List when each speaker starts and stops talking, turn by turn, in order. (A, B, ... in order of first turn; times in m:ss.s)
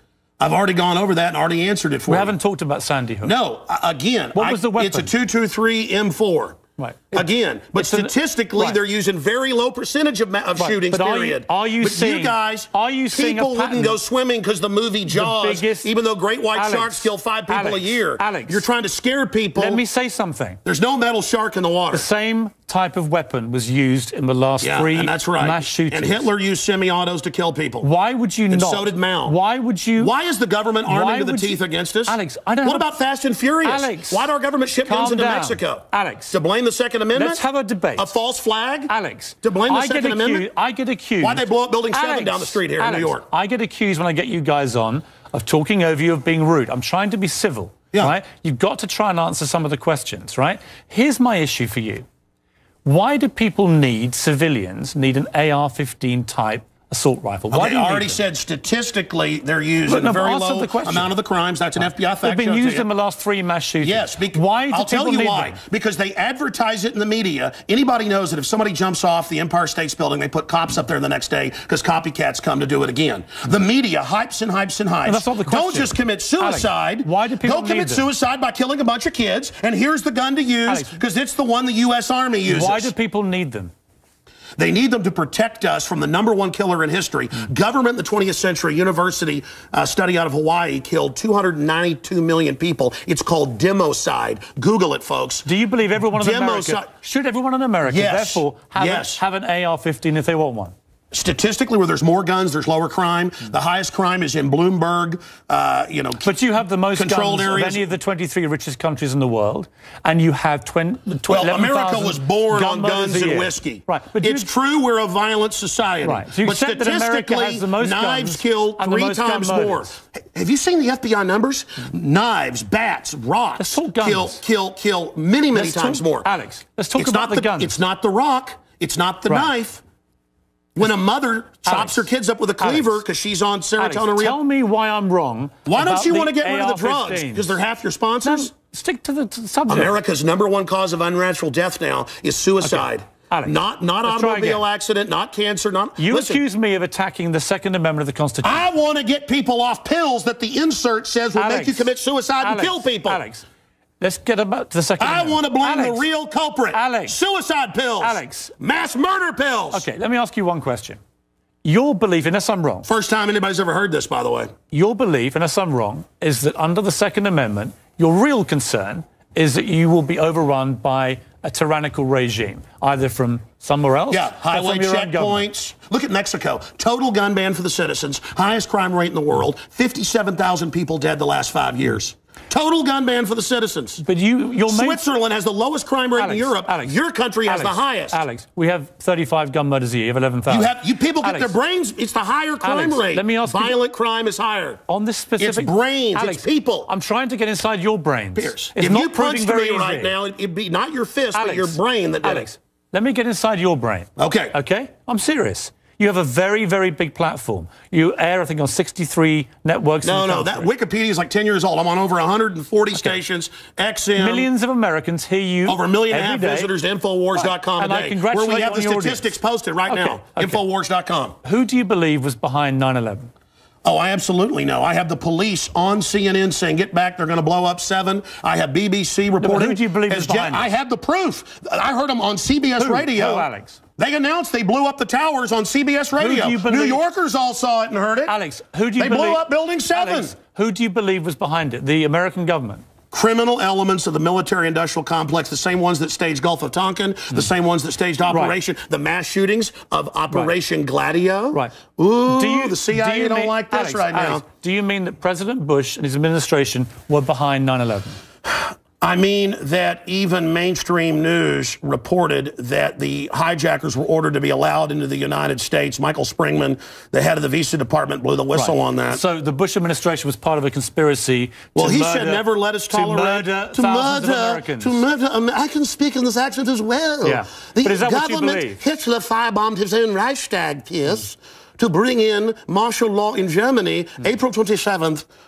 0:00.4-0:02.3 A
0:02.1-0:03.3 B
0:03.2-0:06.6 A
0:04.3-0:05.1 B
0:06.8-0:08.8 B
0:07.1-0:19.8 A
0:10.6-0:14.0 B
0:15.1-0:15.9 B
0:16.5-0:18.6 B
0:19.6-0:20.6 B
0:20.6-0:22.0 A
0:21.9-0:26.3 B
0:24.6-0:27.9 A
0:27.8-0:30.1 B
0:28.5-0:29.4 A
0:30.0-0:37.4 A
0:30.9-0:32.9 B
0:33.6-0:34.3 B
0:34.8-0:36.4 B
0:37.1-0:38.1 B
0:38.0-0:38.9 A
0:38.9-0:52.1 B
0:39.4-0:40.5 A
0:41.2-0:43.2 A
0:52.8-0:58.2 B
0:57.5-1:02.8 A
0:59.9-1:01.1 B
1:02.2-1:05.6 B
1:03.8-1:22.9 A
1:15.0-1:18.1 B
1:20.6-1:21.0 B
1:22.4-1:23.7 B
1:24.6-1:35.5 A
1:35.4-1:40.7 B
1:36.2-1:36.9 A
1:37.8-1:39.2 A
1:41.1-1:46.3 A
1:46.2-1:54.5 B
1:46.9-1:47.9 A
1:51.3-2:06.3 A
1:56.0-1:59.9 B
2:03.6-2:04.4 B
2:05.5-2:07.7 B
2:07.0-2:09.8 A
2:10.8-2:14.4 A
2:11.6-2:12.1 B
2:12.6-2:13.0 B
2:13.8-2:17.6 B
2:15.6-2:18.5 A
2:18.2-2:19.9 B
2:19.7-2:26.4 A
2:22.6-2:24.6 B
2:26.0-2:28.6 B
2:28.4-2:33.2 A
2:31.3-2:31.9 B
2:32.4-2:33.4 B
2:34.0-2:36.0 B
2:35.0-2:39.8 A
2:36.7-2:37.2 B
2:38.0-2:38.5 B
2:39.7-2:41.0 B
2:41.6-2:42.9 B
2:42.8-2:44.5 A
2:44.7-2:55.5 B
2:54.1-3:04.0 A
3:04.0-3:05.0 B
3:04.6-3:08.2 A
3:06.2-3:11.5 B
3:10.5-3:14.8 A
3:12.6-3:13.8 B
3:14.9-3:20.2 B
3:15.4-3:16.9 A
3:18.4-3:22.5 A
3:21.3-3:30.7 B
3:24.2-3:24.5 A
3:30.0-3:34.5 A
3:34.2-3:36.7 B
3:35.6-3:41.3 A
3:37.3-3:40.6 B
3:41.4-3:43.3 B
3:43.8-3:58.3 A
3:49.4-3:50.8 B
3:52.8-3:53.8 B
3:56.2-3:57.0 B
3:58.3-4:02.8 B
3:59.0-4:00.4 A
4:03.1-4:14.4 A
4:08.3-4:08.5 B
4:12.3-4:18.2 B
4:18.4-4:29.2 A
4:28.5-4:35.0 B
4:31.8-4:45.2 A
4:37.2-4:38.8 B